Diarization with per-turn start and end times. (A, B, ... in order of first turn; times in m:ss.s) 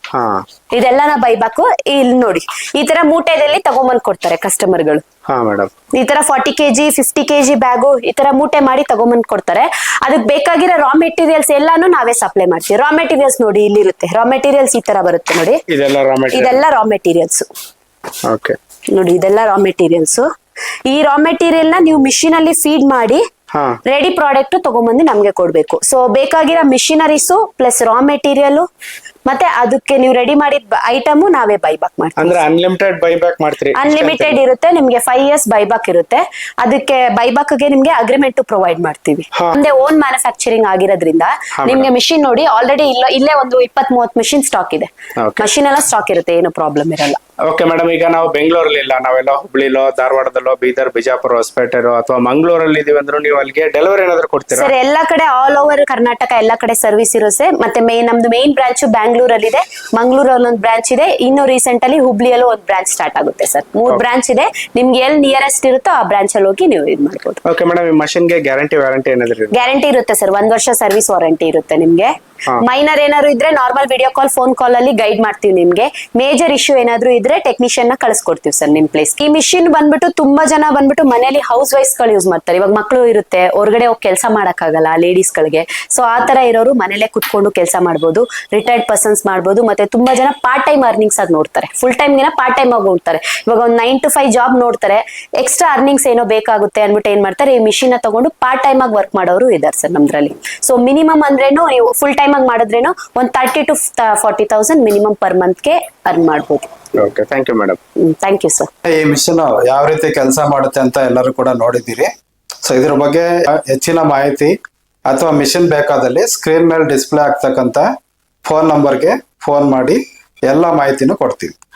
0:00.1-0:00.4 A
0:00.7-0:05.0 B
0:05.3-0:05.7 A
0:05.9-0:15.6 B
0:15.7-0:16.6 A
0:16.3-0:17.5 B
0:18.2-0:18.6 A
0:18.9-0:20.2 B
0:20.9-0:23.2 B
0:23.5-0:23.8 A
0:23.9-0:28.7 B
0:29.3-0:32.4 B
0:32.2-0:34.4 A
0:33.8-0:47.2 B
0:41.6-0:41.9 A
0:45.2-0:45.5 A
0:47.5-0:54.7 A
0:54.5-1:07.4 B
1:07.5-1:09.7 A
1:09.5-1:46.7 B
1:47.0-1:47.8 A
1:48.0-1:48.7 B
1:48.8-1:52.1 C
1:52.6-1:54.5 C
1:55.1-1:57.9 C
1:58.5-2:01.5 C